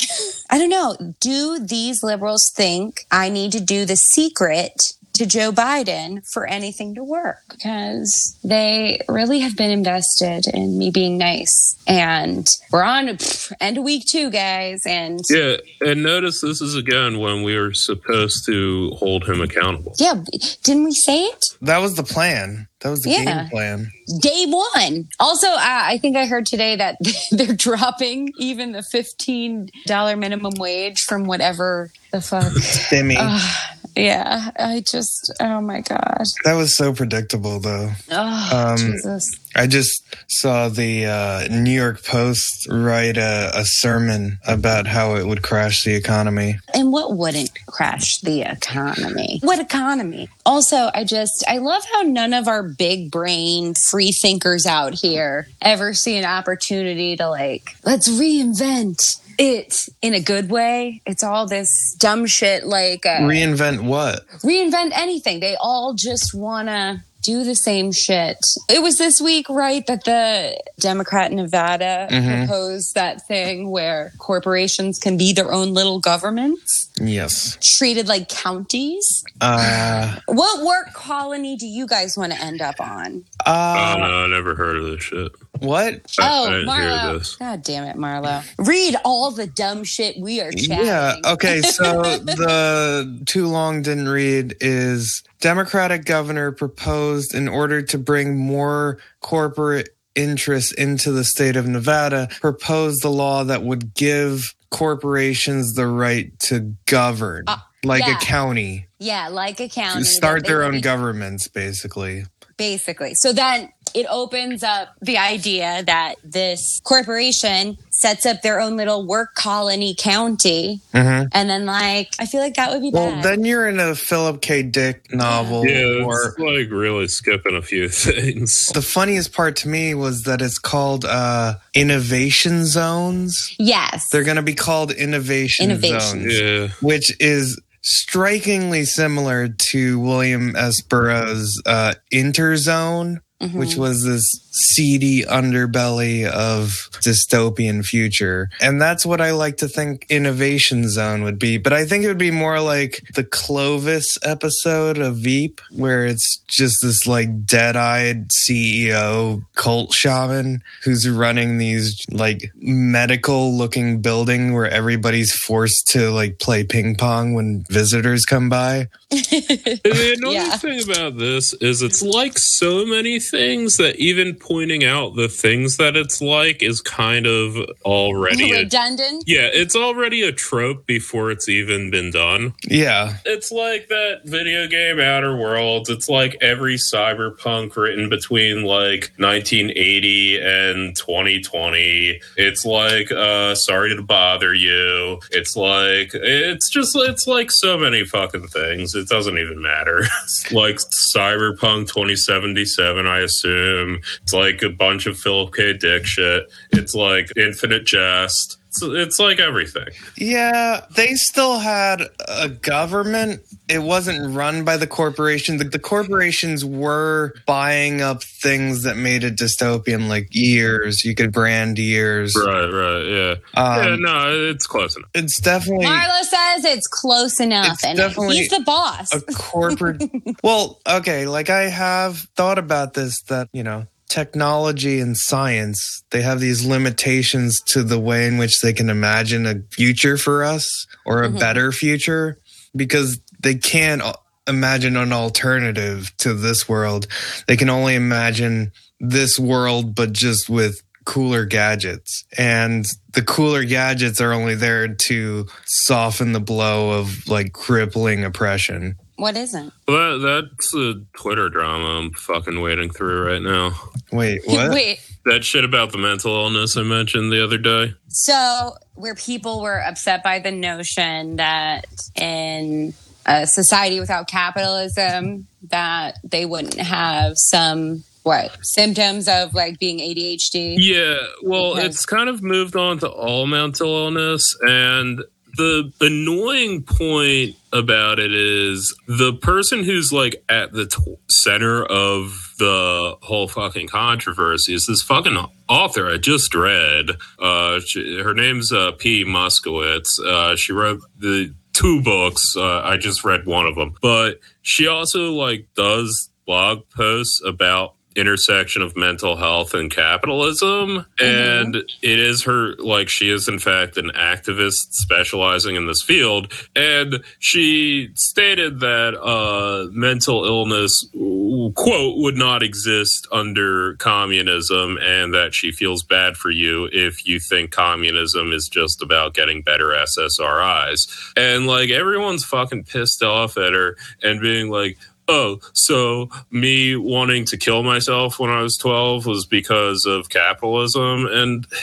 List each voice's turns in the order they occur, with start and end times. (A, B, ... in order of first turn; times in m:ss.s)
0:00.5-0:15.3 A
0:15.3-0:20.0 B
0:20.0-0:21.5 A
0:21.6-0:23.9 C
0:23.0-0:23.5 A
0:24.1-0:36.3 A
0:32.8-0:33.3 C
0:36.4-0:46.6 C
0:38.1-0:39.4 A
0:46.7-1:03.4 A
1:03.1-1:04.2 C
1:04.4-1:16.8 A
1:12.1-1:12.5 C
1:17.0-1:17.6 C
1:17.6-1:19.2 A
1:19.4-1:20.2 C
1:20.2-1:23.2 A
1:23.4-1:24.1 C
1:23.7-1:25.3 B
1:25.6-1:26.1 C
1:26.2-1:27.4 B
1:26.2-1:32.3 A
1:30.5-1:48.9 C
1:47.5-1:48.3 A
1:49.0-1:50.9 A
1:49.9-1:52.3 C
1:52.6-2:03.3 A
2:00.9-2:01.3 C
2:02.9-2:06.3 C
2:05.2-2:05.6 A
2:05.6-2:08.8 B
2:08.7-2:13.5 C
2:13.6-2:14.2 A
2:14.1-2:48.9 C
2:15.6-2:16.2 A
2:16.2-2:16.8 B
2:23.4-2:23.8 A
2:49.1-2:50.6 A
2:49.8-2:58.7 B
2:58.3-2:59.3 A
2:59.2-3:02.5 B
3:02.6-3:03.2 C
3:03.2-3:30.0 B
3:30.2-3:42.4 C
3:42.3-3:45.1 B
3:43.5-3:44.0 C
3:45.1-3:46.1 C
3:45.8-3:50.3 A
3:47.6-3:48.5 C
3:49.1-4:19.0 C
4:01.2-4:01.5 A
4:19.2-4:19.7 A
4:19.9-4:23.8 B
4:24.1-4:24.8 C
4:24.5-4:25.0 A
4:25.2-4:27.9 B
4:28.1-4:40.8 A
4:40.8-5:41.7 B
4:41.6-4:42.0 A
5:11.2-5:11.7 A